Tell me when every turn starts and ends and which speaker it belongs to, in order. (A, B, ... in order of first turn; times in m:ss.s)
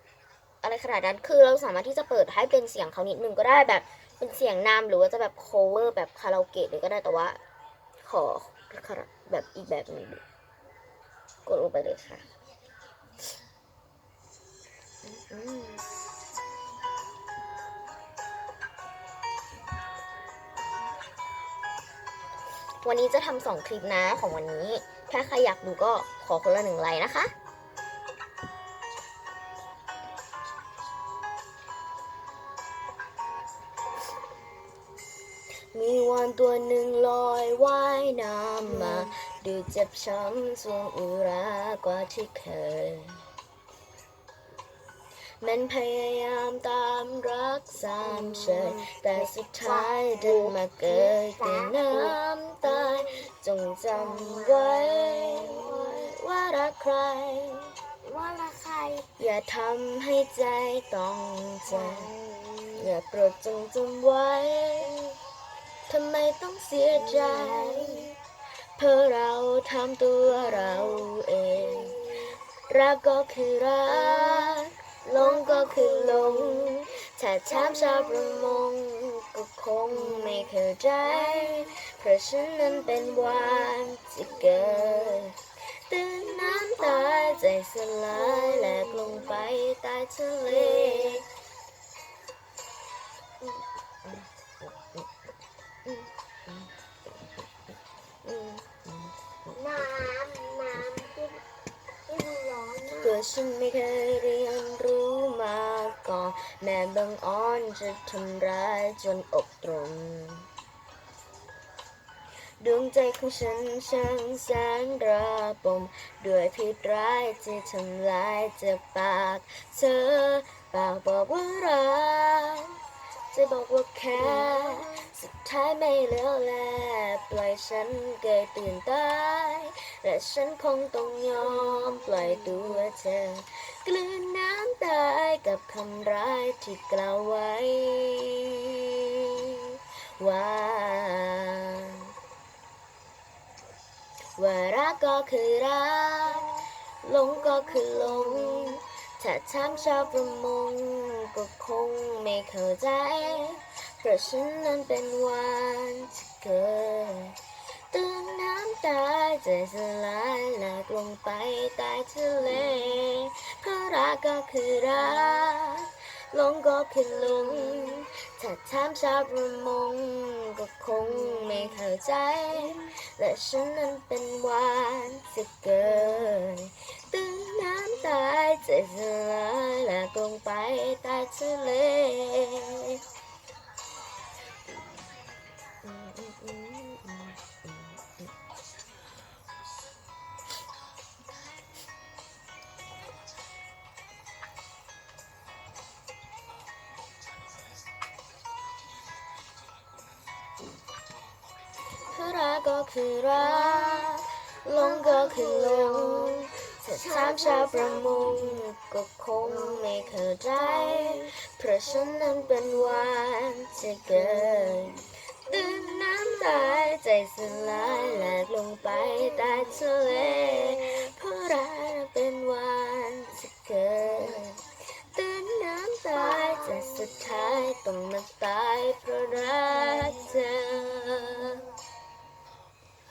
0:00.6-0:07.4 A
0:08.0-0:10.2 A
0:11.4-0:12.2 A
0:15.0-0:15.8 A
0:22.8-0:27.3 A
0:35.7-0:43.2 A
0:45.4-0:57.7 A
0:48.1-0:48.9 B
0:49.6-0:52.1 B
0:52.7-0:53.2 B
0:54.0-0:56.1 B
0:58.0-0:59.0 B
0:59.2-1:02.1 A
1:01.7-1:02.8 B
1:02.8-1:04.9 A
1:04.8-1:05.2 B
1:05.9-1:08.2 A
1:07.1-1:08.1 B
1:08.8-1:12.1 A
1:10.3-1:11.0 B
1:11.7-1:12.3 B
1:12.7-1:31.3 A
1:15.2-1:16.7 B
1:17.5-1:18.6 B
1:20.1-1:20.4 B
1:21.2-1:21.7 B
1:22.9-1:23.6 B
1:24.5-1:25.2 B
1:26.3-1:27.4 B
1:28.1-1:29.4 B
1:30.5-1:31.2 B
1:33.4-1:34.3 A
1:35.8-1:36.7 A
1:38.2-1:39.6 A
1:39.5-1:41.4 B
1:42.1-1:43.2 B
1:43.0-1:50.5 A
1:52.6-2:19.6 A
2:20.2-2:22.1 A
2:24.4-2:26.5 A
2:27.0-2:37.4 A
2:37.9-3:03.0 A
3:05.8-3:08.0 A
3:22.1-3:51.7 A
3:25.0-3:26.4 B
3:26.9-3:28.4 B
3:30.8-3:31.2 B
3:46.2-3:46.8 B